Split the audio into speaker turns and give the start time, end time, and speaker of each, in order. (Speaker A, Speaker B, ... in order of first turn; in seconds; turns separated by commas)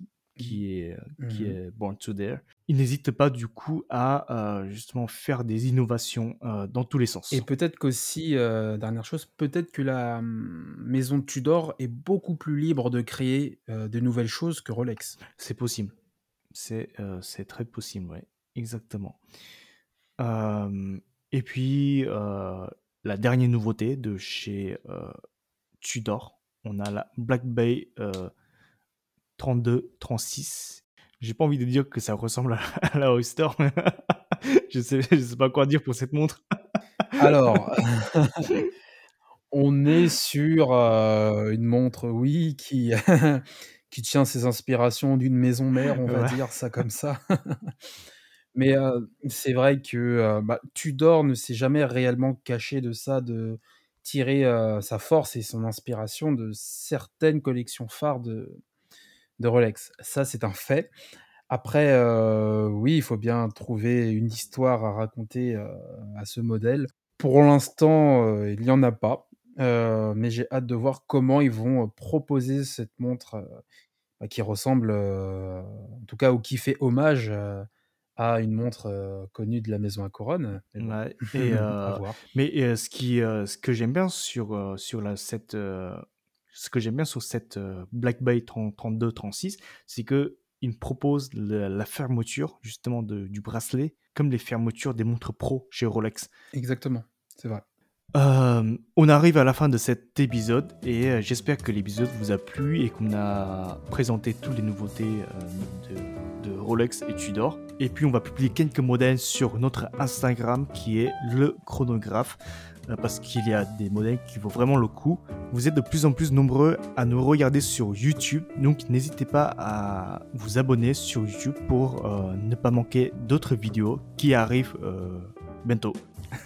Speaker A: 0.4-7.5, Speaker B: 1.2-1.6, Speaker B: 7.3-15.2, Speaker A: 15.3-15.9, Speaker A: 16.5-19.2, Speaker A: 20.2-25.1, Speaker A: 25.8-28.3, Speaker A: 29.4-36.4, Speaker A: 37.0-37.4, Speaker B: 37.2-38.5, Speaker B: 39.5-47.7, Speaker A: 46.0-46.4, Speaker B: 48.5-58.6, Speaker B: 59.4-60.9, Speaker B: 61.5-73.6, Speaker B: 74.2-77.7, Speaker B: 78.2-82.2, Speaker A: 80.8-96.3, Speaker B: 96.5-97.6, Speaker A: 98.2-126.0